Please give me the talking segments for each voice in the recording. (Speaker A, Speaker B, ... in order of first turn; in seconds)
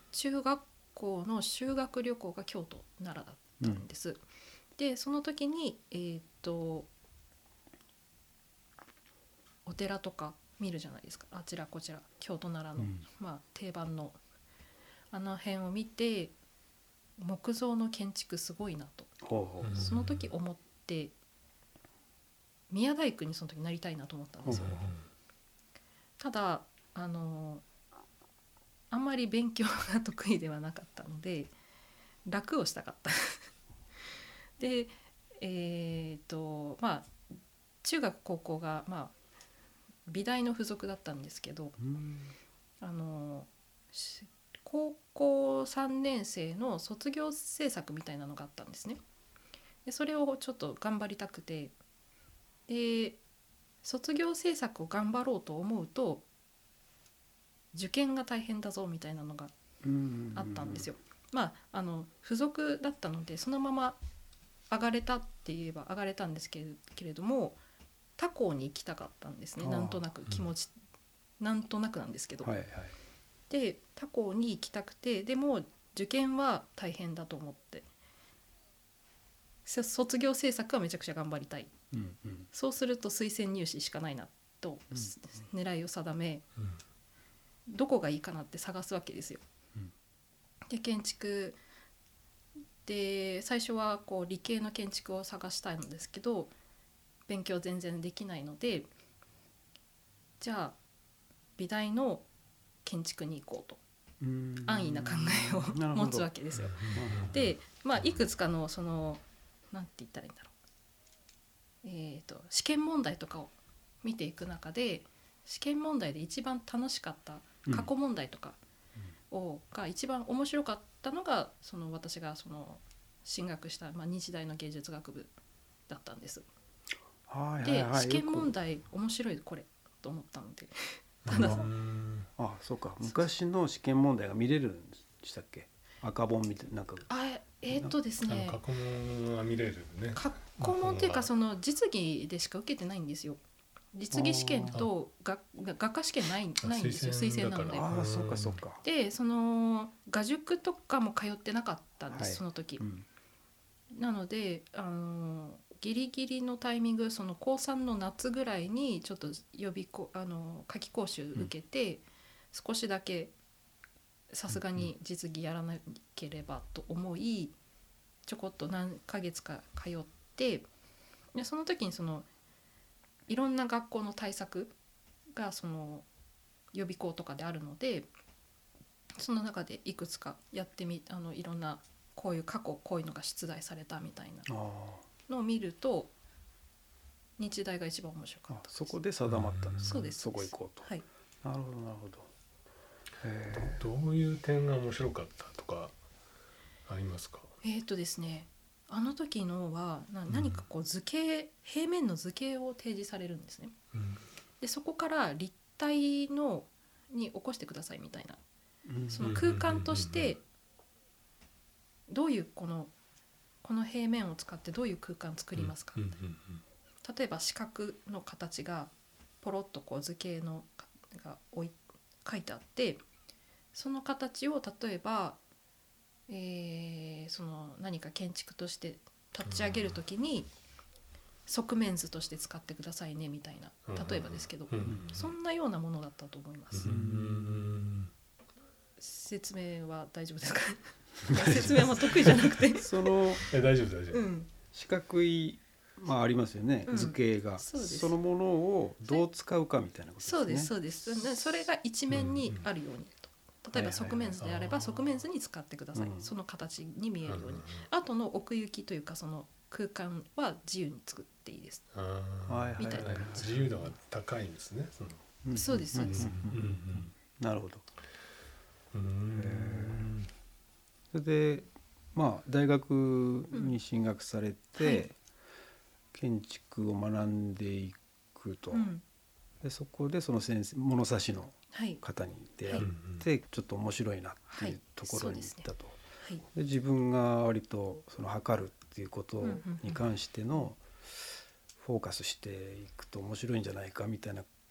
Speaker A: 0.1-4.2, 4.8-6.9, 9.7-14.2, 15.1-16.3, 17.2-19.2, 19.7-21.1, 22.7-24.9, 26.2-27.6, 28.9-31.5, 32.3-33.5, 34.6-37.2, 37.8-39.1, 40.1-41.8, 42.8-49.0, 49.9-51.8, 52.7-53.2, 53.8-56.3, 57.7-59.5, 60.3-64.0, 64.7-67.6, 68.2-70.7, 71.4-72.5, 73.5-77.9, 79.7-81.7, 82.5-86.5, 87.7-89.4, 90.7-91.6, 92.8-96.5, 97.3-98.9, 100.4-100.8, 101.6-102.3, 102.8-103.8, 104.7-110.5, 111.8-118.6, 119.3-125.3, 125.9-126.5, 127.6-131.7, 137.1-138.6, 140.2-143.4, 143.9-147.9, 148.8-152.8, 153.9-163.3, 164.3-167.6, 168.3-170.7, 171.3-172.3, 173.3-174.7, 175.3-176.1, 176.7-178.1, 179.2-184.5, 185.3-186.1, 187.4-188.9, 189.8-191.1, 197.6-203.8, 204.6-208.4, 209.1-210.4, 212.1-212.9, 213.6-216.2, 217.0-218.9, 219.4-223.0, 223.7-225.4, 226.3-230.5, 231.5-236.9, 239.0-243.4, 244.1-244.5, 246.9-248.2, 250.2-261.8, 262.8-263.4, 265.5-266.4, 273.5-273.8, 274.8-275.1, 278.7-279.0, 281.7-282.0, 284.5-285.7, 286.2-286.4, 289.4-290.0
Speaker B: 12.8-13.0, 19.2-19.9, 24.4-24.8, 41.8-42.3, 59.8-60.9, 69.6-70.0, 72.4-73.0, 81.9-82.5, 104.2-106.3, 106.8-107.5, 127.3-128.5, 131.3-131.7, 132.4-137.1, 144.1-144.8, 147.7-148.8, 152.1-153.1, 184.5-185.1, 188.5-190.9, 191.4-192.3, 193.2-193.8, 208.8-209.3, 236.8-237.8, 241.3-242.0, 242.7-243.4, 244.7-250.8, 253.7-254.4, 255.9-256.3, 262.5-263.9, 265.4-267.9, 269.3-270.1, 271.1-275.2, 276.1-278.9, 279.6-290.8, 291.8-294.5
Speaker C: 19.6-20.2, 24.5-25.0, 106.6-107.3, 131.2-132.3, 138.2-141.3, 146.6-148.6, 189.3-190.0, 193.5-195.9, 196.9-197.5, 200.3-200.6, 203.9-204.2, 209.2-210.3, 215.6-216.6, 229.4-230.0, 233.9-235.3, 236.7-238.1, 242.0-242.4, 243.4-244.2, 252.1-252.7, 254.4-255.1, 257.3-257.9, 261.9-265.3, 265.9-267.1, 268.9-270.3, 282.8-283.2